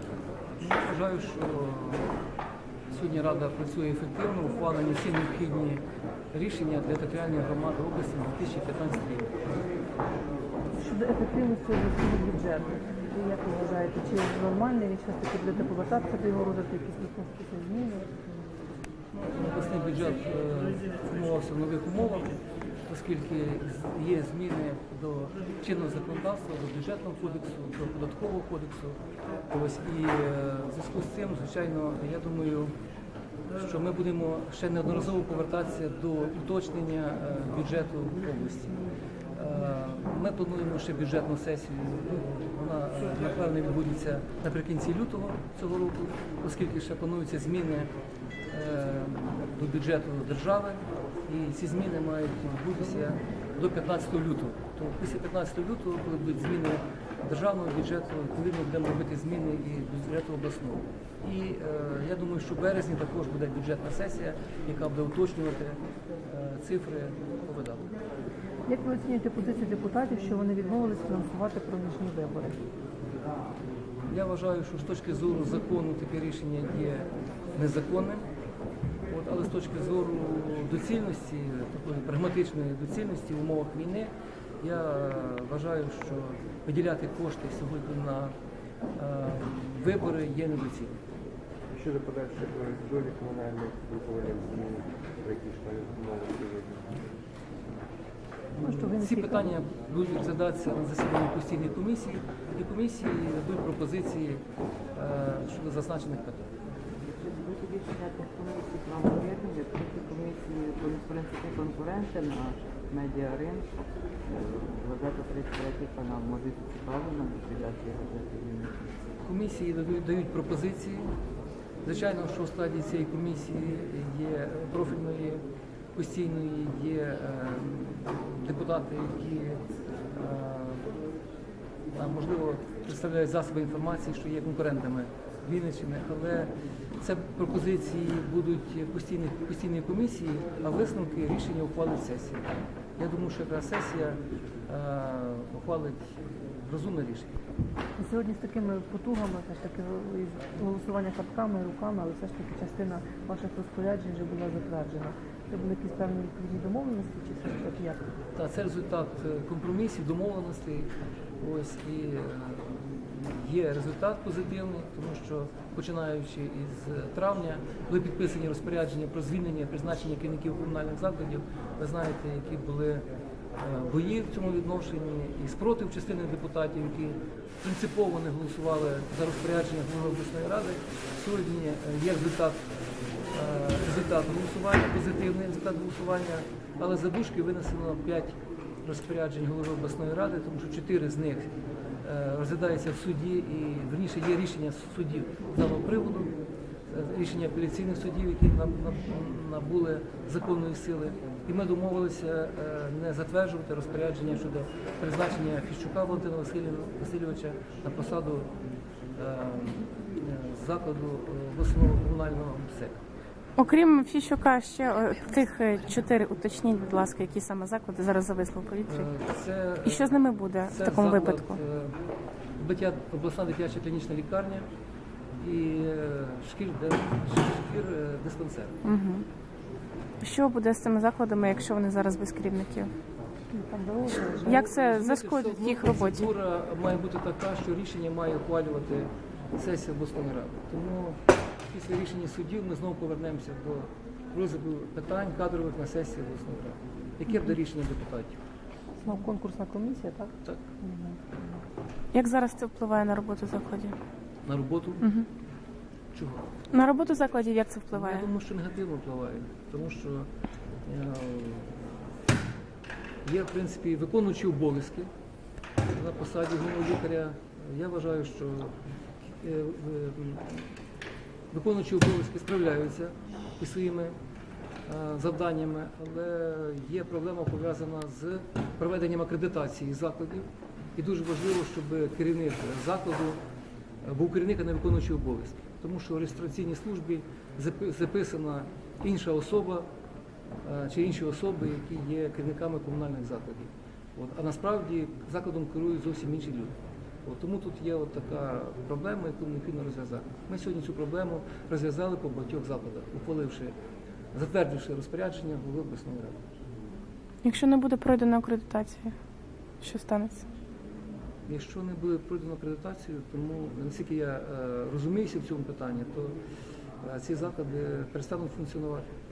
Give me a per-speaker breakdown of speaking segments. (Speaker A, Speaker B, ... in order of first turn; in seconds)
Speaker A: 0.6-2.2, 2.9-9.3, 19.1-29.0, 29.5-32.7, 33.5-38.8, 39.3-47.9, 48.5-67.9, 74.1-78.3, 79.1-88.3, 89.0-91.0, 98.6-104.4, 104.9-106.5, 119.2-121.1, 121.8-125.4, 125.9-129.6, 130.2-130.9, 131.9-147.3, 158.3-173.0, 173.6-182.6, 183.3-196.3, 196.9-208.5, 209.2-213.0, 218.9-221.9, 222.6-224.7, 225.4-228.8, 234.4-241.2, 241.7-248.4, 254.4-255.0, 256.1-256.5, 257.9-260.3, 260.9-261.8, 263.2-265.1, 265.9-268.7, 269.4-270.6, 271.5-274.1, 274.9-283.4, 284.0-289.9, 290.6-296.7, 297.2-303.7, 304.3-306.4, 311.5-316.4, 317.0-319.0
Speaker B: 10.7-18.1, 68.6-72.6, 98.6-99.5, 147.9-158.0, 233.5-234.7, 249.0-251.6
Speaker C: 91.7-97.1
Speaker D: 107.2-111.0, 111.5-113.6, 114.3-114.6
Speaker E: 213.6-219.1, 219.8-221.6, 228.8-229.2, 230.2-232.9, 234.4-236.3, 252.1-253.9, 255.0-255.3, 256.7-258.3, 307.4-309.1, 309.8-310.4